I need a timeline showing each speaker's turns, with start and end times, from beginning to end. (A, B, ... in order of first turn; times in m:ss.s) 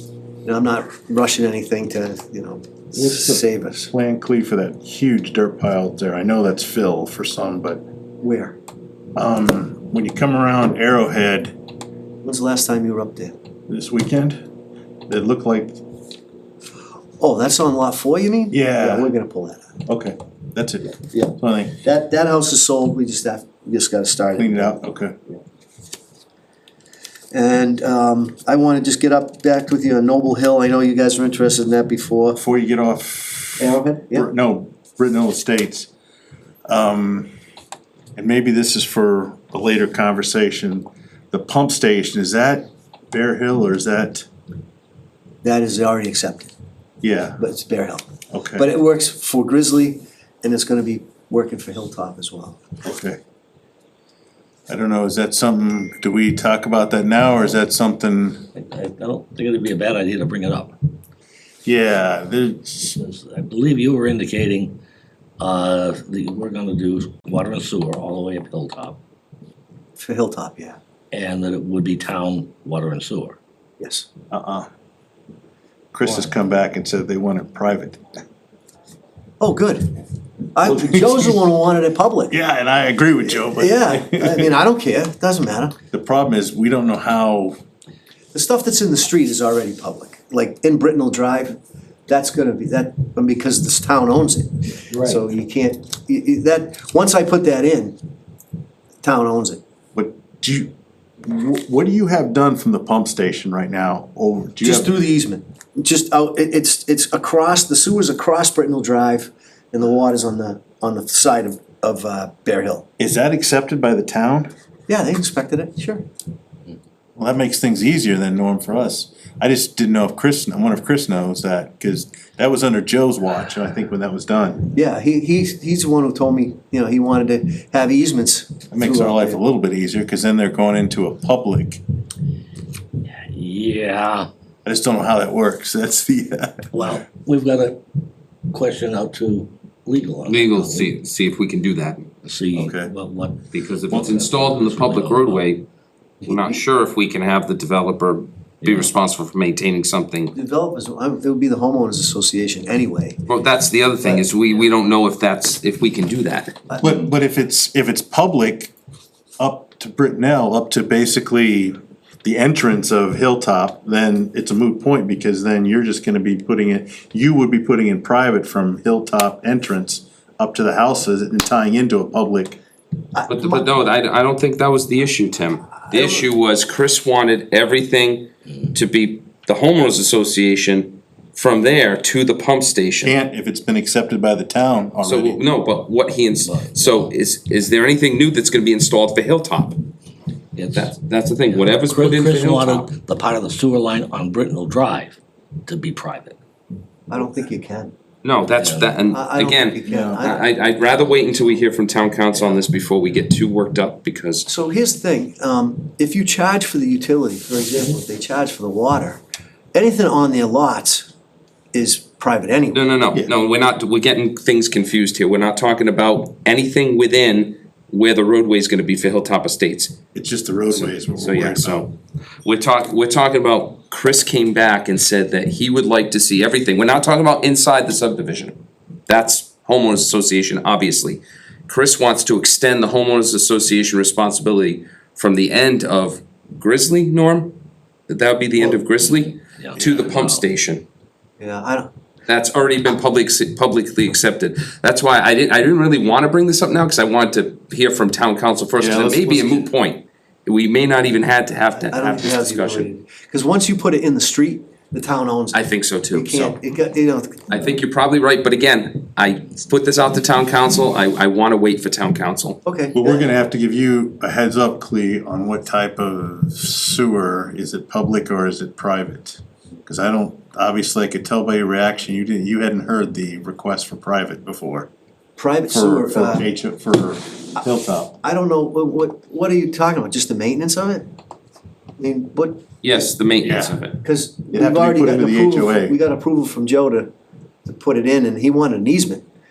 0:00.4-0:03.9 A
0:02.9-0:07.8 B
0:08.2-0:08.6 A
0:09.1-0:11.6 B
0:12.2-0:13.4 A
0:13.7-0:14.4 B
0:15.1-0:15.8 B
0:17.2-0:19.7 A
0:18.5-0:19.1 B
0:19.8-0:21.8 B
0:21.1-0:24.8 A
0:24.3-0:25.2 B
0:27.3-0:32.4 A
0:32.4-0:35.9 B
0:33.6-0:34.3 A
0:36.7-0:37.3 B
0:38.2-0:44.2 B
0:45.4-0:46.5 A
0:47.0-0:47.4 B
0:47.4-0:52.6 A
0:48.3-0:48.7 B
0:52.8-0:53.2 B
0:54.7-0:58.4 B
0:58.5-1:00.7 C
1:01.6-1:03.0 B
1:02.9-1:04.8 C
1:05.4-1:09.0 C
1:10.0-1:10.8 A
1:11.1-1:13.4 C
1:13.8-1:14.0 A
1:14.3-1:14.7 B
1:15.9-1:18.0 B
1:19.4-1:19.9 A
1:20.5-1:22.3 A
1:20.6-1:21.4 B
1:22.3-1:24.5 B
1:23.3-1:25.8 A
1:25.9-1:27.6 B
1:28.3-1:38.0 A
1:34.9-1:35.2 C
1:39.0-1:39.6 A
1:39.9-1:40.7 B
1:41.2-1:45.0 B
1:44.6-1:52.8 A
1:53.0-1:54.5 B
1:54.9-1:56.0 A
1:57.2-2:04.7 B
2:04.7-2:09.4 A
2:08.7-2:11.8 B
2:13.0-2:14.3 C
2:14.6-2:16.7 B
2:16.7-2:17.8 C
2:18.5-2:20.9 C
2:20.3-2:22.0 D
2:22.2-2:25.5 C
2:22.5-2:22.9 B
2:23.5-2:25.6 D
2:26.2-2:26.6 A
2:26.2-2:30.3 D
2:28.6-2:28.9 C
2:30.3-2:33.2 A
2:33.3-2:36.6 D
2:36.8-2:38.7 B
2:39.4-2:52.6 B
2:53.1-2:53.7 A
2:53.3-3:03.1 D
2:55.8-2:56.3 A
3:03.0-3:05.4 B
3:05.0-3:09.8 D
3:06.4-3:07.1 C
3:10.6-3:10.9 C
3:10.7-3:12.9 D
3:11.5-3:16.4 C
3:17.1-3:17.9 A
3:18.2-3:24.4 D
3:18.6-3:18.9 C
3:19.1-3:20.5 A
3:19.9-3:20.2 B
3:24.4-3:29.2 A
3:29.7-3:31.1 A
3:31.7-3:33.0 A
3:32.7-3:39.9 D
3:40.1-3:41.8 B
3:40.7-3:41.9 D
3:42.4-3:57.6 D
3:58.1-4:00.8 D
3:59.4-4:00.4 C
4:01.4-4:01.9 A
4:02.3-4:12.9 D
4:08.8-4:09.7 B
4:11.8-4:17.7 A
4:15.5-4:16.6 D
4:17.5-4:22.6 D
4:22.6-4:23.3 A
4:22.9-4:34.9 B
4:35.4-4:36.4 A
4:35.7-4:38.2 B
4:38.2-4:41.1 A
4:42.0-4:43.1 A
4:42.8-4:44.0 D
4:43.4-4:43.8 B
4:44.0-4:47.1 A
4:44.5-4:46.0 B
4:47.6-4:49.2 A